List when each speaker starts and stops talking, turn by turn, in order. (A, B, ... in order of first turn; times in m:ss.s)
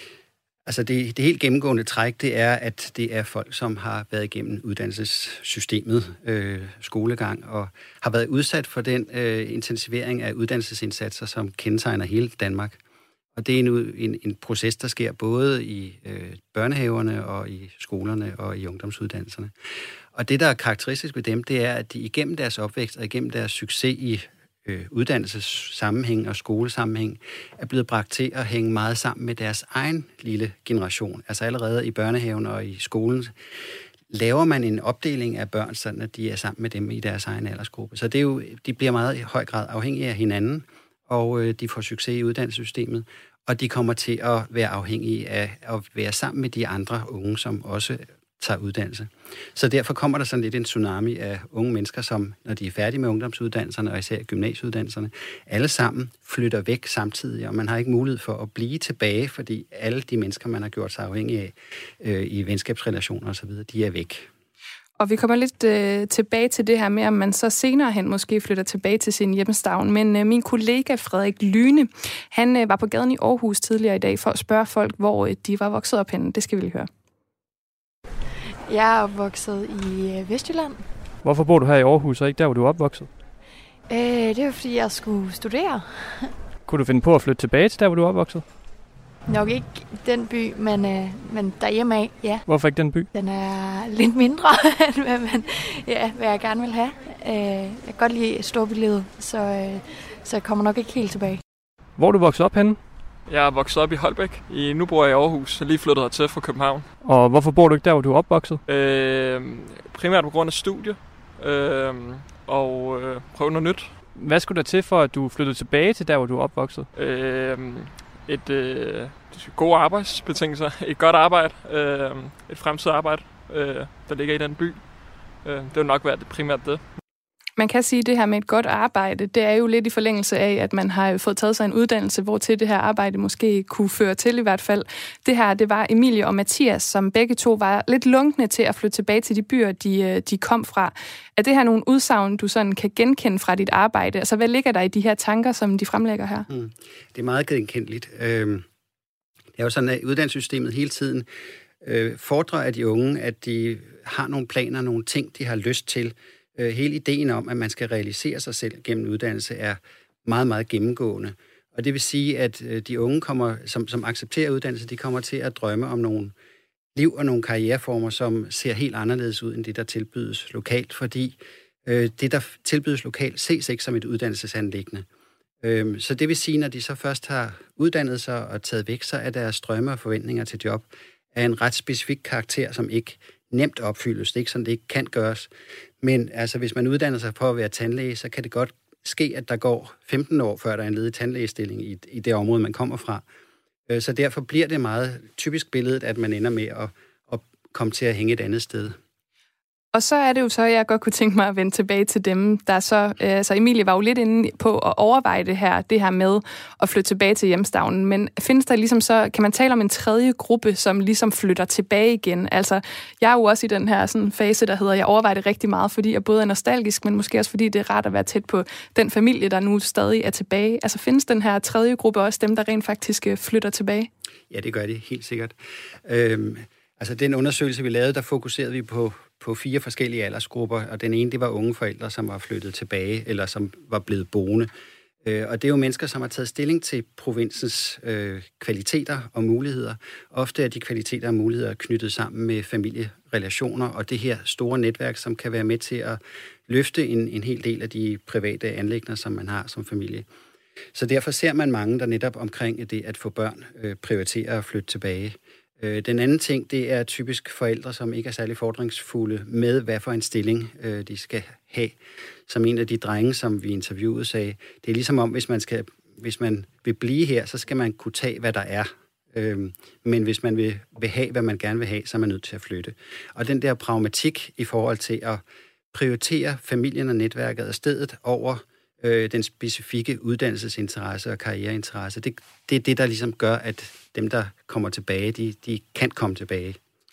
0:00.7-0:12.8 A
0:13.4-0:19.5 A
0:20.1-0:33.3 A
0:34.1-1:04.3 A
1:05.0-1:16.9 B
1:18.7-1:20.8 C
1:21.2-1:23.1 D
1:23.9-1:26.3 C
1:26.6-1:28.5 D
1:29.3-1:32.5 C
1:32.5-1:33.1 D
1:33.1-1:41.4 C
1:42.0-1:42.8 D
1:43.2-1:46.9 E
1:47.0-1:48.6 D
1:48.7-1:53.9 E
1:54.1-1:56.9 D
1:56.9-2:06.8 E
2:07.6-2:26.5 B
2:26.5-2:28.6 A
2:29.6-2:31.3 A
2:31.8-2:46.3 A
2:47.0-2:55.1 A
2:55.6-3:05.5 A
3:06.0-3:13.2 A
3:13.9-3:19.0 A
3:19.9-3:44.1 B
3:44.5-3:54.7 A
3:55.2-4:10.3 A
4:10.9-4:46.8 A